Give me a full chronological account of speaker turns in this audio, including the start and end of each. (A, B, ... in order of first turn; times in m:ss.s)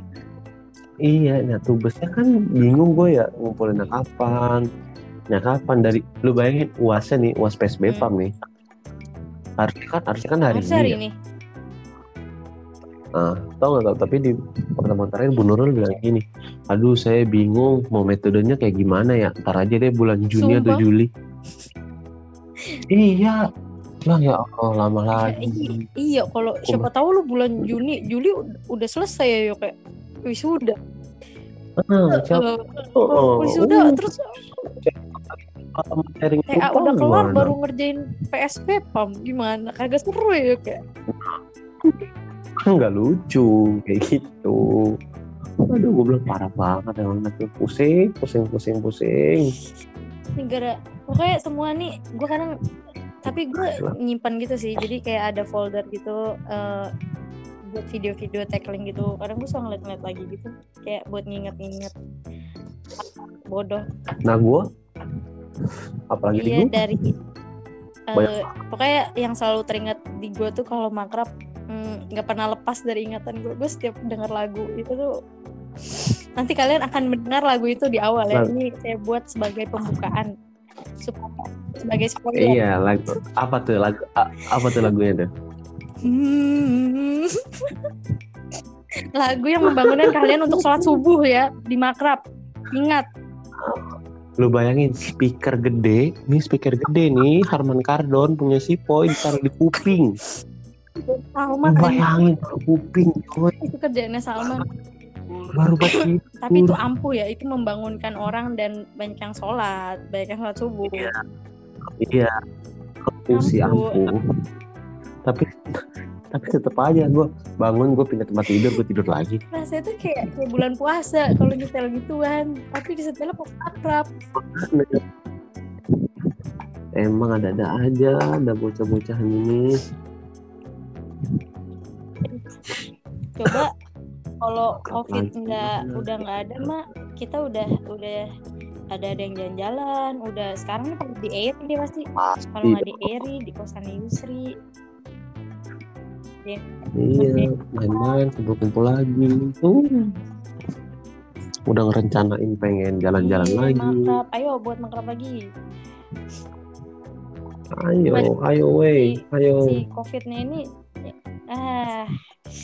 0:01.1-0:04.6 A
0:05.3-0:08.3 A
0:09.6-0:11.0 A
0:10.5-0:11.1 B
0:13.2-0:21.1 A
0:20.4-0:20.8 B
0:22.9-0:23.4 A
0:24.0-0:25.8 A
0:25.2-0:29.7 B
0:30.2-0:30.8 B
0:31.8-0:32.4 A
0:32.1-0:34.4 B
0:33.0-0:34.0 A
0:34.8-0:37.5 A
0:36.5-0:40.8 B
0:41.1-0:42.1 A
0:42.6-0:44.6 A
0:45.7-0:49.5 A
0:50.4-0:52.5 B
0:53.2-0:56.9 B
0:53.3-0:53.9 A
0:57.7-1:01.9 B
1:03.4-1:03.8 B
1:04.2-1:04.6 A
1:06.1-1:06.8 A
1:06.4-1:07.1 B
1:08.1-1:15.1 B
1:08.1-1:08.5 A
1:15.9-1:20.3 B
1:21.0-1:22.6 B
1:22.4-1:25.3 A
1:26.0-1:27.8 B
1:29.2-1:32.2 B
1:29.7-1:30.8 A
1:32.7-1:33.0 B
1:34.4-1:40.1 A
1:41.1-1:42.0 B
1:41.6-1:43.6 A
1:43.6-1:44.6 B
1:45.5-1:46.8 A
1:45.8-1:51.1 B
1:50.8-1:51.1 A
1:52.0-1:52.3 A
1:53.1-1:54.1 A
1:53.3-1:54.0 B
1:56.3-1:59.4 A
1:59.5-2:04.1 B
2:04.4-2:05.0 A
2:07.0-2:09.8 A
2:13.4-2:13.7 B
2:14.4-2:18.2 B
2:14.8-2:16.7 A
2:18.9-2:22.0 B
2:22.2-2:23.2 A
2:22.5-2:24.4 B
2:26.9-2:30.1 A
2:27.2-2:28.2 B
2:31.7-2:34.1 A
2:33.2-2:35.3 B
2:37.8-2:39.7 A
2:39.0-2:42.1 B